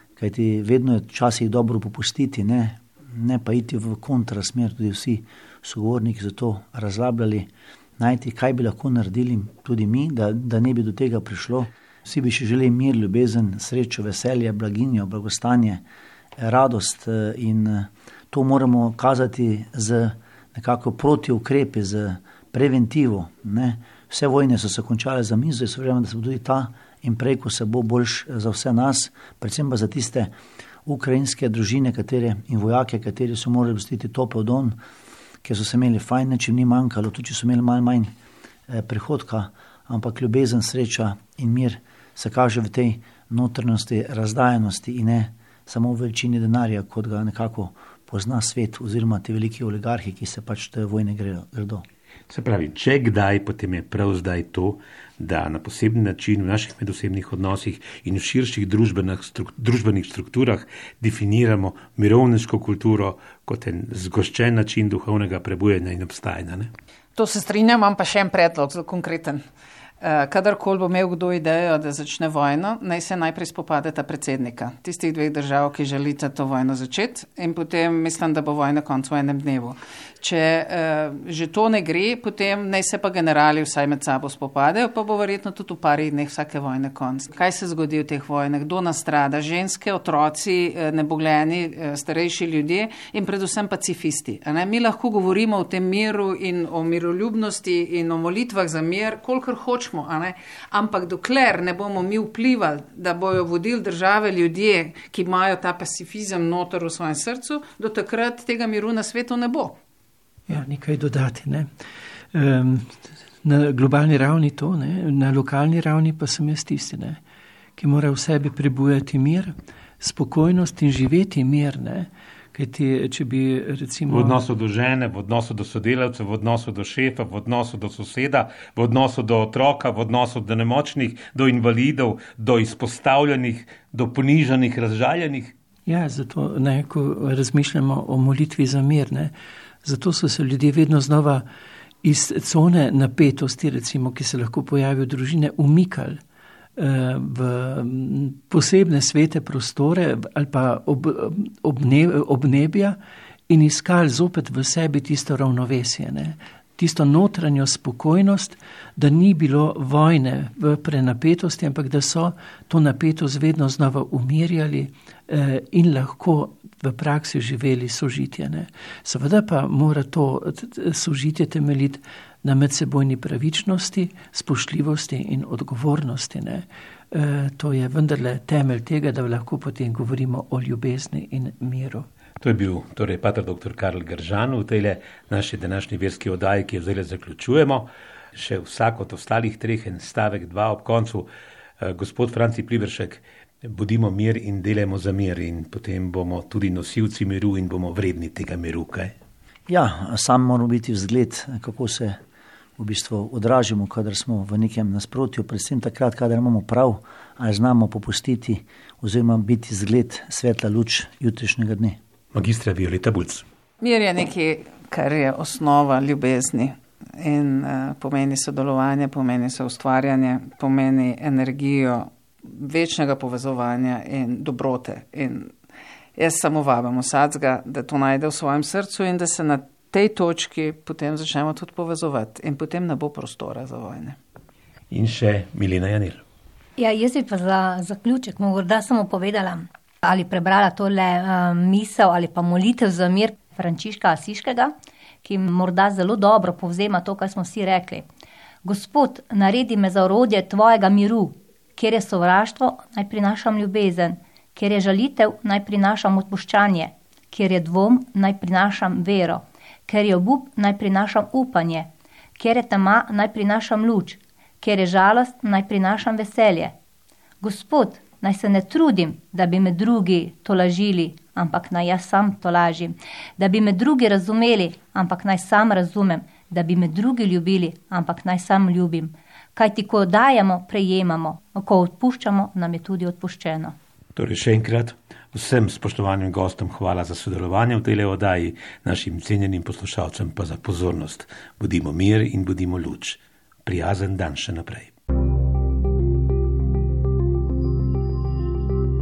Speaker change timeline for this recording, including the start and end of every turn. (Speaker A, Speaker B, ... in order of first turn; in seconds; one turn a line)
Speaker A: 0.2-15.8
Speaker A: 16.4-30.3
Speaker A: 30.9-34.8
Speaker A: 35.4-38.1
Speaker A: 38.7-51.8
Speaker B: 52.3-66.7
Speaker C: 67.2-69.4
Speaker C: 70.0-109.8
Speaker D: 110.5-111.7
Speaker D: 112.3-117.2
Speaker D: 117.8-124.4
Speaker B: 124.1-135.5
Speaker D: 135.9-139.3
Speaker D: 139.8-141.4
Speaker D: 142.0-146.2
Speaker D: 146.8-153.0
Speaker D: 153.5-182.1
Speaker B: 182.4-191.3
Speaker B: 191.8-199.2
Speaker A: 199.7-202.2
Speaker A: 202.8-212.0
Speaker B: 212.3-213.4
Speaker C: 213.8-225.5
Speaker C: 226.2-234.2
Speaker B: 234.9-236.2
Speaker E: 236.8-244.7
Speaker E: 245.2-248.1
Speaker E: 248.7-266.7
Speaker E: 267.4-283.8
Speaker B: 284.2-294.9